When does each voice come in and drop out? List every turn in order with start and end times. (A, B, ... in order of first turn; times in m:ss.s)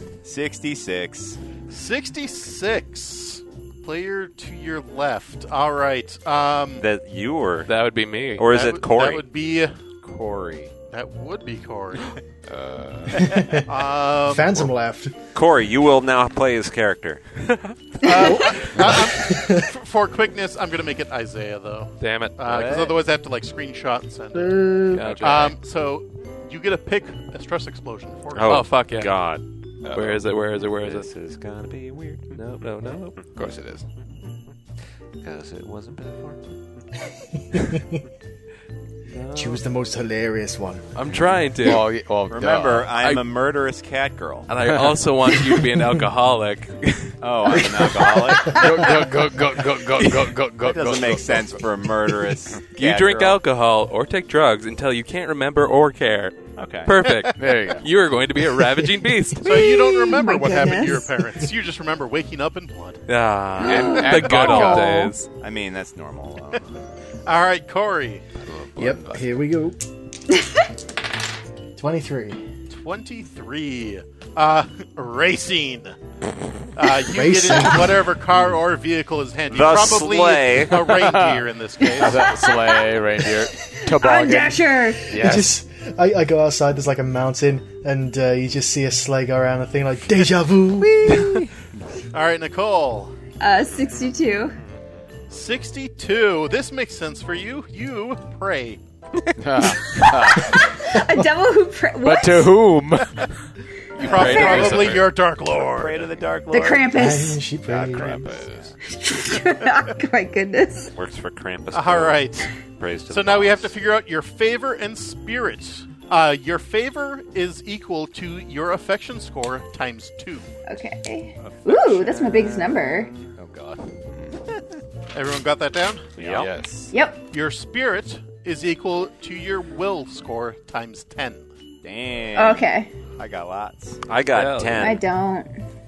0:00.2-0:01.4 A
0:01.7-0:06.9 B
0:06.8-0:07.7 C
0:07.7-0:08.5 D
0:08.4-0:09.3 C
0:08.5-0:09.8 B
0:10.1-0:10.7 A
0:10.9-0:12.2 B
0:12.5-0:13.5 E
0:13.2-0:15.1 F
0:13.7-0:14.7 B
0:15.4-0:17.2 C
0:18.0-0:28.7 B
0:18.0-0:19.7 F
0:22.0-0:22.9 D
0:24.4-0:25.2 G
0:24.9-0:25.6 D
0:28.3-0:29.4 C
0:28.4-0:29.2 D
0:29.9-0:30.2 E
0:29.9-0:31.1 D
0:30.8-0:32.4 C
0:32.3-0:33.2 D
0:33.3-0:33.9 E
0:35.2-0:36.4 C
0:37.5-0:38.0 F
0:39.1-0:39.6 D
0:39.3-0:40.8 F
0:41.0-0:41.9 D
0:41.1-0:43.0 E
0:42.3-0:44.5 A
0:43.0-0:43.3 D
0:44.5-0:46.9 D
0:44.6-0:45.0 E
0:47.2-0:48.6 A
0:48.0-0:48.8 F
0:48.4-0:51.7 E
0:50.0-0:53.4 A
0:52.7-0:59.7 D
0:56.6-0:57.0 A
0:57.4-0:57.9 E
0:59.4-1:03.0 B
0:59.4-1:01.2 G
1:03.1-1:05.3 D
1:03.6-1:05.1 E
1:03.6-1:04.8 G
1:05.4-1:06.7 A
1:07.3-1:08.2 B
1:08.4-1:09.3 E
1:08.8-1:09.8 F
1:11.8-1:12.4 F
1:12.7-1:16.0 B
1:16.8-1:22.3 B
1:17.1-1:18.2 F
1:19.5-1:20.9 C
1:20.8-1:25.6 E
1:22.0-1:23.0 G
1:23.6-1:25.1 G
1:25.1-1:31.4 F
1:32.1-1:33.2 B
1:33.4-1:34.6 G
1:35.3-1:38.8 B
1:39.4-1:40.6 E
1:40.4-1:42.6 G
1:40.9-1:41.3 F
1:42.0-1:43.2 E
1:44.0-1:46.1 B
1:44.0-1:45.1 D
1:44.0-1:44.9 E
1:44.1-1:44.7 G
1:45.5-1:47.0 A
1:46.5-1:47.4 G
1:46.9-1:48.4 F
1:47.7-1:48.7 E
1:48.9-1:50.9 G
1:51.0-1:53.7 C
1:51.7-1:52.5 B
1:53.1-2:00.5 B
2:00.7-2:03.1 G
2:01.4-2:03.3 A
2:03.4-2:04.3 E
2:05.1-2:06.1 B
2:06.2-2:06.5 C
2:06.2-2:06.9 E
2:06.9-2:07.2 G
2:07.3-2:11.5 B
2:11.8-2:14.0 A
2:12.4-2:12.9 G
2:14.1-2:15.0 C
2:14.3-2:15.0 D
2:14.8-2:15.5 G